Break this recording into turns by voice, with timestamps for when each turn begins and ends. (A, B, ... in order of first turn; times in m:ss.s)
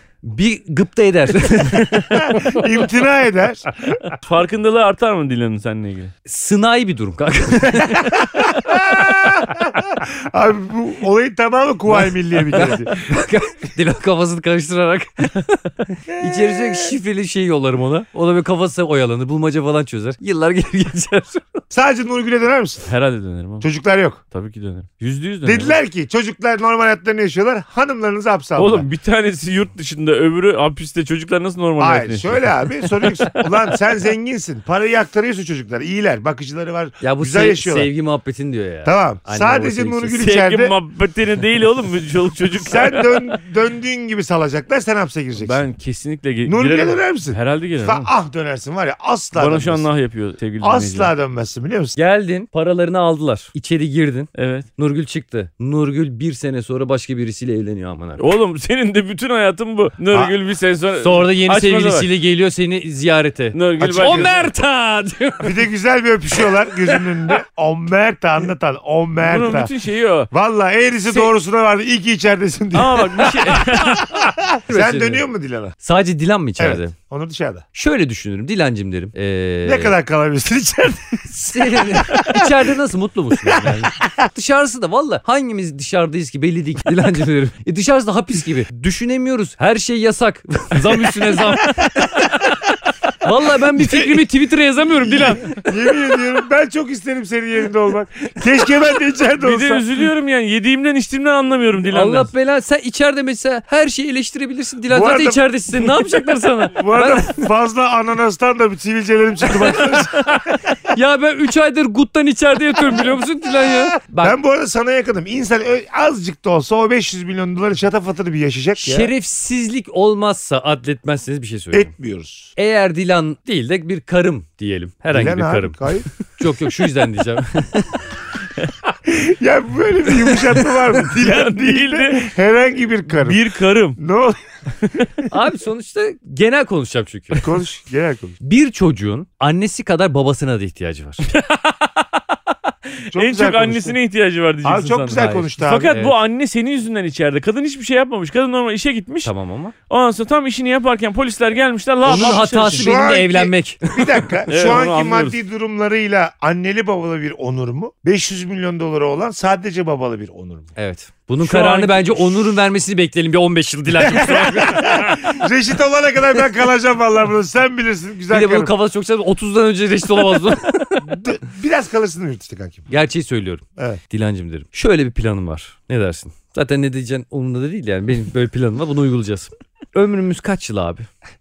0:00.2-0:02.5 A
0:01.7-0:04.0 B
0:04.2-0:06.1 C
0:06.3-0:08.2 A
0:07.8-0:13.1 B
0:11.9-0:21.6 A
0:16.2-0:16.9 B
0:21.7-0:22.9 B
0:22.9-0:23.7 C
0:23.6-0:24.2 B
0:24.3-0:25.8 C
0:25.4-0:28.9 B
0:28.6-0:33.5 C
0:31.8-0:37.9 B
0:37.0-0:40.2 A
0:38.8-0:40.8 B
0:40.2-0:43.2 C
0:42.5-0:45.6 B
0:45.4-0:48.1 C
0:46.4-0:49.9 B
0:49.4-0:51.1 C
0:50.6-0:52.0 B
0:52.0-0:58.2 A
0:54.4-0:54.7 C
0:58.2-1:02.1 C
1:01.0-1:05.6 A
1:03.5-1:04.5 C
1:03.8-1:04.3 B
1:05.4-1:09.7 B
1:06.6-1:07.1 A
1:09.2-1:10.3 C
1:10.3-1:15.8 B
1:12.7-1:14.2 C
1:14.7-1:15.2 A
1:15.8-1:17.0 A
1:16.6-1:17.6 B
1:17.7-1:20.0 A
1:19.6-1:22.7 B
1:21.5-1:32.5 A
1:23.4-1:24.3 B
1:31.2-1:32.5 B
1:33.2-1:35.7 A
1:33.7-1:34.3 B
1:35.0-1:39.9 B
1:39.4-1:42.3 C
1:41.9-1:47.5 A
1:44.9-1:45.4 B
1:46.8-1:50.6 B
1:49.5-1:54.4 A
1:54.2-1:59.1 B
1:58.8-2:01.9 A
2:01.7-2:02.5 B
2:02.6-2:08.0 A
2:05.1-2:06.1 B
2:09.0-2:13.4 B
2:10.8-2:12.3 C
2:13.1-2:14.0 C
2:14.0-2:14.4 B
2:15.3-2:17.5 A
2:17.3-2:18.4 B
2:18.4-2:21.3 A
2:21.2-2:22.4 C
2:23.1-2:29.3 C
2:23.1-2:24.0 B
2:24.6-2:26.0 B
2:25.2-2:26.2 A
2:29.2-2:29.7 A
2:29.9-2:32.9 C
2:32.0-2:40.7 B
2:32.1-2:34.4 A
2:34.5-2:35.4 C
2:40.8-2:45.2 A
2:41.4-2:42.3 C
2:44.0-2:48.7 B
2:44.8-2:45.0 C
2:48.3-2:51.2 A
2:51.0-2:52.9 B
2:52.9-3:01.1 A